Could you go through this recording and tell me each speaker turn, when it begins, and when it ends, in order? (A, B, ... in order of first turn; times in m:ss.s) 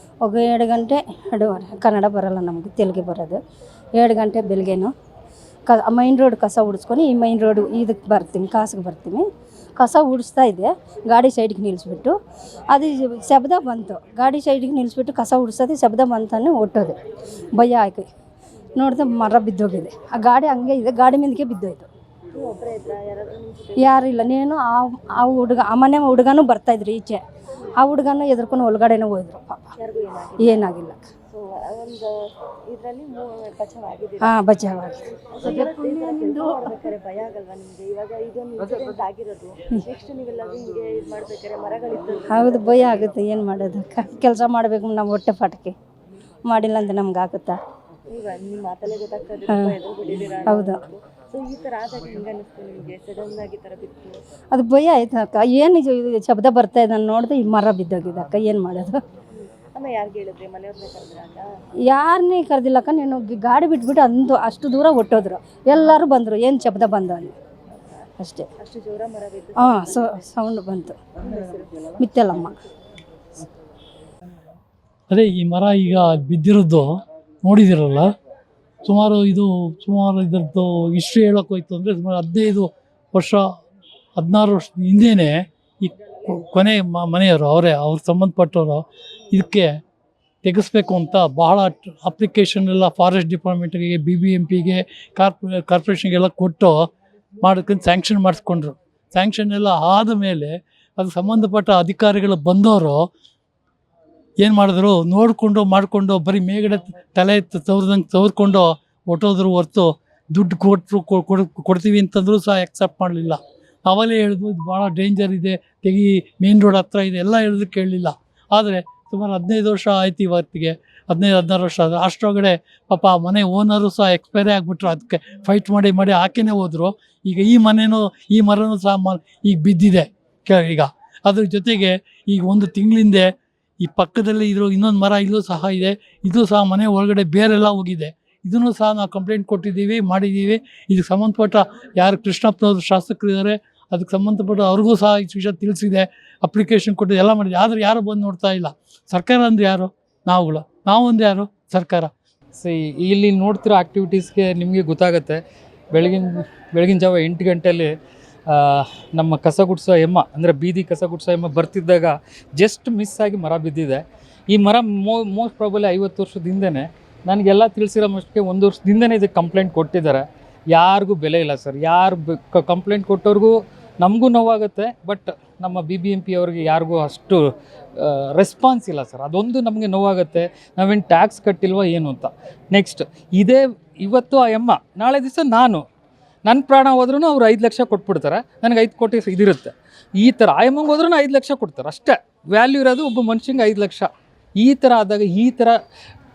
0:00.2-0:03.4 A
0:03.9-0:04.9 A
0:05.7-0:12.1 A
0:12.7-0:17.0 A
0:17.5-0:18.1 A
0:18.8-0:21.9 A
0:22.3-0:24.3 B
0:23.8-0:27.2 A
0:27.8-0:29.7 A
0:29.8-0:30.7 B
0:30.4-0:31.1 A
0:31.3-0:32.1 B
0:32.7-0:34.4 B
0:34.2-0:36.3 A
0:35.1-0:43.2 B
0:42.3-0:45.7 A
0:46.4-0:47.6 A
0:48.1-0:54.2 B
0:50.5-0:50.8 A
0:54.5-0:59.0 A
0:59.3-1:01.5 B
1:01.8-1:07.3 A
1:07.7-1:10.2 B
1:08.2-1:08.5 A
1:09.6-1:11.0 A
1:11.2-1:11.9 B
1:12.0-1:12.6 A
1:15.1-1:18.1 C
1:18.8-1:23.4 C
1:24.2-1:29.7 C
1:30.4-1:36.8 C
1:37.4-1:43.0 C
1:44.4-2:32.1 C
2:32.5-2:35.4 D
2:35.9-2:37.9 D
2:38.5-2:57.4 D
2:58.0-3:05.8 D
3:06.4-3:15.8 D